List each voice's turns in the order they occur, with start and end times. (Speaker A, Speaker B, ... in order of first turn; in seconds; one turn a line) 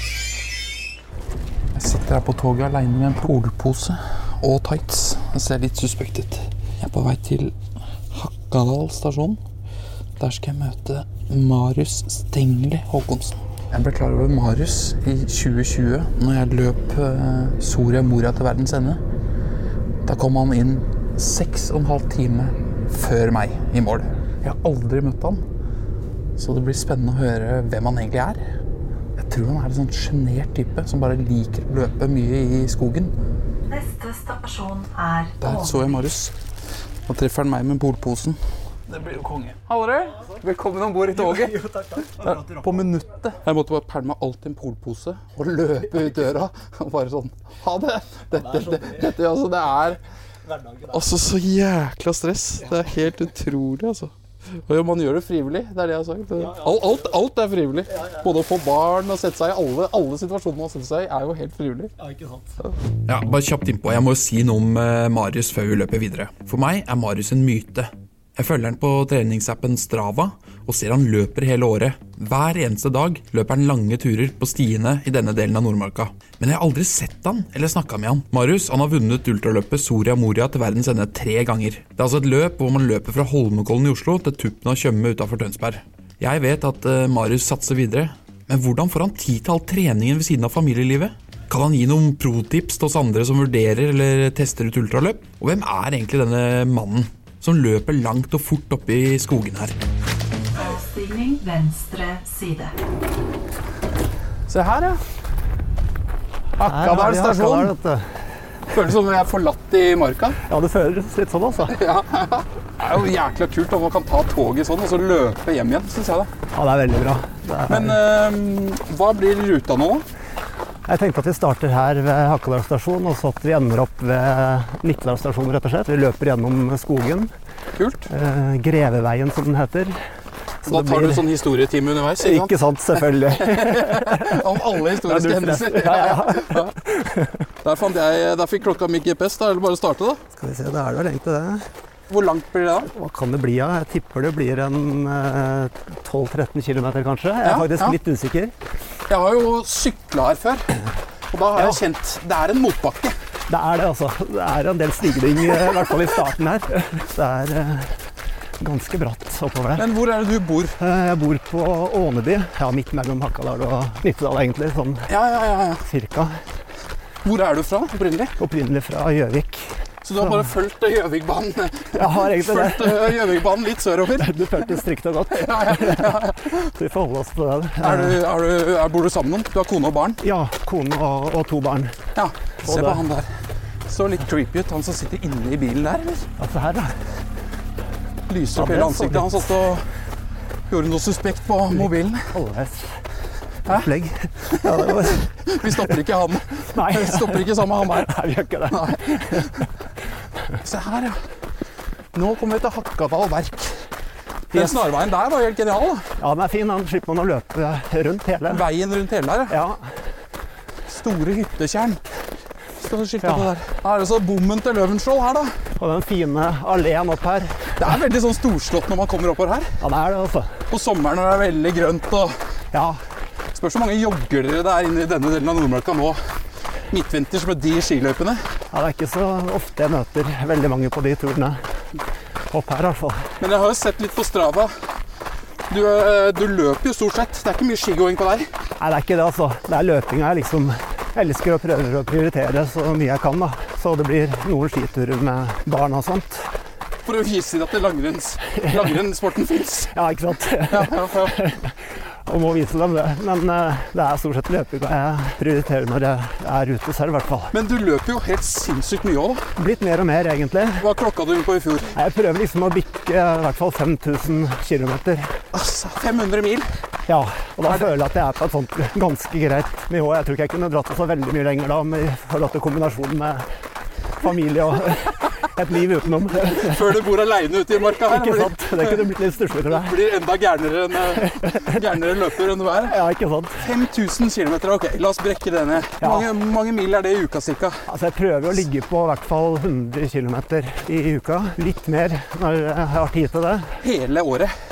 Speaker A: 1.8-7.5
Speaker A: 8.1-9.4
Speaker A: 10.2-19.0
Speaker A: 20.1-25.4
Speaker A: 26.4-28.4
Speaker A: 29.2-33.1
Speaker B: 33.7-36.1
Speaker A: 35.4-36.3
Speaker A: 37.1-38.4
Speaker A: 38.9-50.0
Speaker C: 41.1-42.6
Speaker A: 50.9-54.1
Speaker A: 54.6-61.9
Speaker C: 56.6-56.9
Speaker C: 62.0-62.5
Speaker A: 63.1-99.8
Speaker B: 100.6-102.7
Speaker A: 104.5-105.0
Speaker A: 106.6-107.7
Speaker C: 106.6-108.2
Speaker A: 108.7-110.4
Speaker C: 110.5-111.8
Speaker A: 111.7-116.3
Speaker C: 116.5-118.0
Speaker A: 117.7-120.0
Speaker C: 120.9-127.3
Speaker A: 127.8-128.1
Speaker C: 128.1-130.0
Speaker C: 130.6-131.2
Speaker A: 130.7-132.6
Speaker C: 132.2-137.4
Speaker A: 133.3-136.7
Speaker A: 137.6-140.2
Speaker C: 140.3-141.7
Speaker A: 142.1-142.9
Speaker C: 142.9-148.5
Speaker A: 147.4-148.0
Speaker A: 149.1-150.8
Speaker A: 151.3-153.2
Speaker C: 153.5-157.9
Speaker C: 158.6-159.9
Speaker A: 159.8-160.8
Speaker C: 160.8-165.1
Speaker A: 165.1-165.8
Speaker C: 165.8-166.4
Speaker A: 167.2-168.4
Speaker C: 168.4-169.8
Speaker A: 170.0-174.4
Speaker C: 172.0-173.2
Speaker C: 174.2-178.2
Speaker A: 175.3-176.7
Speaker A: 177.8-180.2
Speaker C: 180.2-182.0
Speaker A: 182.2-183.3
Speaker C: 182.7-183.0
Speaker A: 183.9-186.3
Speaker C: 186.4-187.0
Speaker A: 188.3-189.9
Speaker C: 188.6-189.4
Speaker A: 190.7-192.3
Speaker C: 192.3-193.0
Speaker C: 193.7-195.9
Speaker A: 194.5-198.1
Speaker C: 196.7-199.5
Speaker A: 198.7-199.7
Speaker A: 200.6-201.2
Speaker A: 202.1-203.8
Speaker A: 204.5-206.1
Speaker C: 204.5-204.8
Speaker C: 206.2-208.7
Speaker A: 208.5-209.6
Speaker C: 209.5-209.9
Speaker A: 210.9-212.0
Speaker A: 212.8-215.5
Speaker C: 213.2-213.5
Speaker C: 215.8-217.8
Speaker A: 217.8-219.8
Speaker C: 219.8-220.6
Speaker A: 220.7-222.3
Speaker C: 222.7-223.0
Speaker A: 223.6-226.2
Speaker A: 226.9-228.4
Speaker C: 228.7-231.6
Speaker C: 232.5-233.3
Speaker A: 233.4-234.7
Speaker A: 235.7-238.5
Speaker C: 238.8-246.5
Speaker A: 247.1-249.9
Speaker C: 249.9-251.7
Speaker A: 250.7-251.4
Speaker C: 252.3-257.5
Speaker A: 257.5-259.4
Speaker C: 259.6-260.9
Speaker A: 260.8-262.0
Speaker C: 261.9-265.4
Speaker A: 265.5-266.7
Speaker C: 267.1-273.4
Speaker C: 274.2-276.9
Speaker A: 276.6-279.1
Speaker C: 277.9-279.9
Speaker A: 279.7-283.0
Speaker C: 281.2-281.8
Speaker C: 282.9-283.6
Speaker A: 283.6-287.8
Speaker C: 286.0-286.3
Speaker C: 287.9-293.7
Speaker A: 293.8-294.5